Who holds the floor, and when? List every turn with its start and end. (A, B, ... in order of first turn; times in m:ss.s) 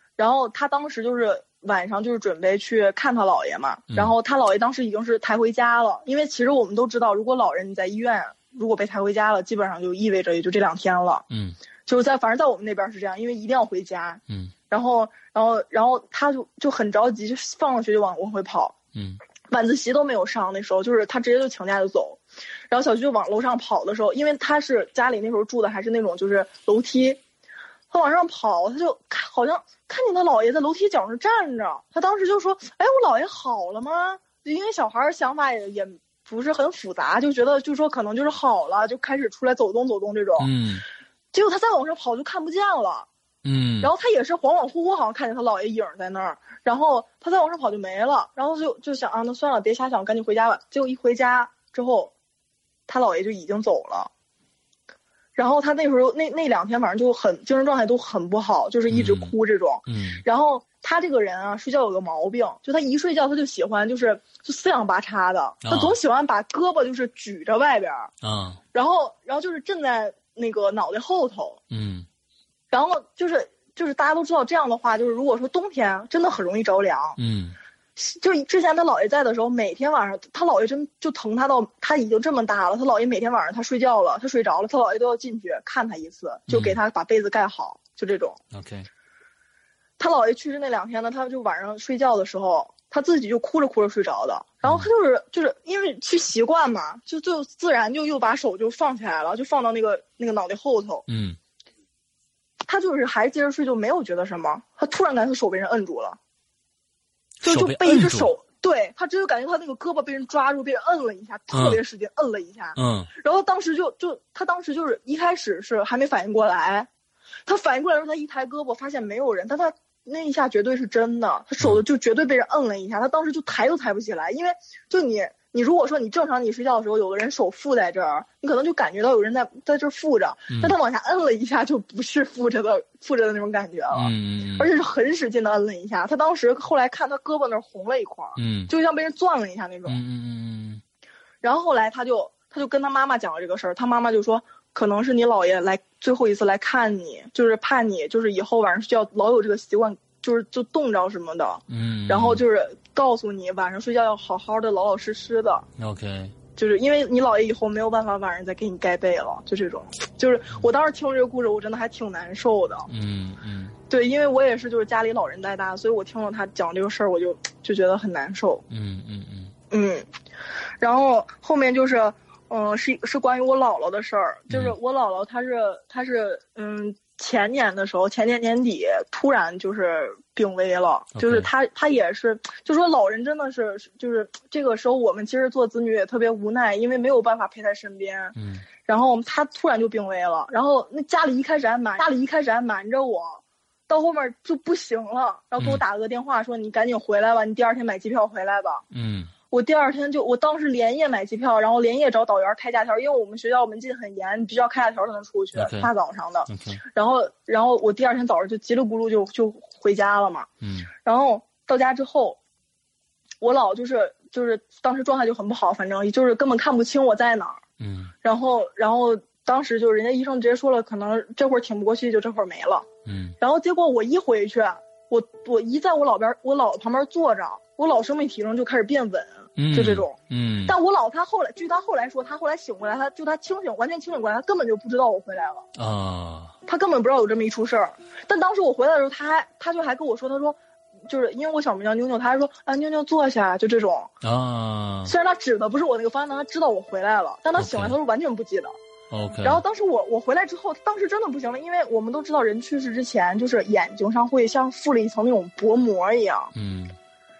0:00.2-0:11.2 A
0:11.3-0:11.6 B
0:11.9-0:18.7 A
0:19.5-0:27.2 A
0:27.9-0:40.5 A
0:40.4-0:40.8 B
0:41.3-0:43.1 A
0:43.4-0:43.9 B
0:43.8-0:52.1 A
0:52.9-0:54.1 A
0:55.4-1:08.1 A
0:58.9-0:59.3 B
0:59.9-1:00.2 B
1:05.6-1:06.0 B
1:08.2-1:08.6 B
1:08.7-1:11.6 A
1:11.7-1:12.1 B
1:12.7-1:17.2 A
1:17.2-1:17.6 B
1:18.0-1:28.4 A
1:26.5-1:26.8 B
1:28.5-1:28.9 B
1:30.0-1:41.0 A
1:41.1-1:41.4 B
1:42.7-1:46.2 A
1:47.4-1:48.3 B
1:47.4-1:56.9 A
1:51.5-1:51.8 B
1:52.8-1:53.1 B
1:57.4-2:20.0 A
2:13.9-2:14.7 B
2:18.4-2:18.7 B
2:19.9-2:20.8 B
2:21.4-2:35.6 A
2:31.7-2:32.4 B
2:35.8-2:36.3 B
2:36.6-2:42.9 A
2:42.9-2:43.8 B
2:43.9-2:48.6 A
2:48.7-2:49.5 B
2:49.7-2:50.1 A
2:50.8-3:18.8 A
2:54.5-2:54.7 B
3:01.2-3:01.5 B
3:08.4-3:08.6 B
3:18.9-3:19.3 B
3:19.5-3:30.5 A
3:25.5-3:25.9 B
3:26.5-3:26.8 B
3:30.6-3:30.9 B
3:31.0-3:32.4 A
3:33.4-3:37.6 A
3:37.8-3:38.1 B
3:38.2-3:42.9 A
3:43.0-3:43.3 B
3:43.4-3:55.6 A
3:49.6-3:50.7 B
3:55.8-3:56.5 B
3:56.6-4:00.6 A
4:01.1-4:04.1 A
4:04.2-4:05.1 B
4:05.0-4:08.7 A
4:07.6-4:07.9 B
4:09.1-4:09.6 B
4:09.4-4:16.5 A
4:16.5-4:17.0 B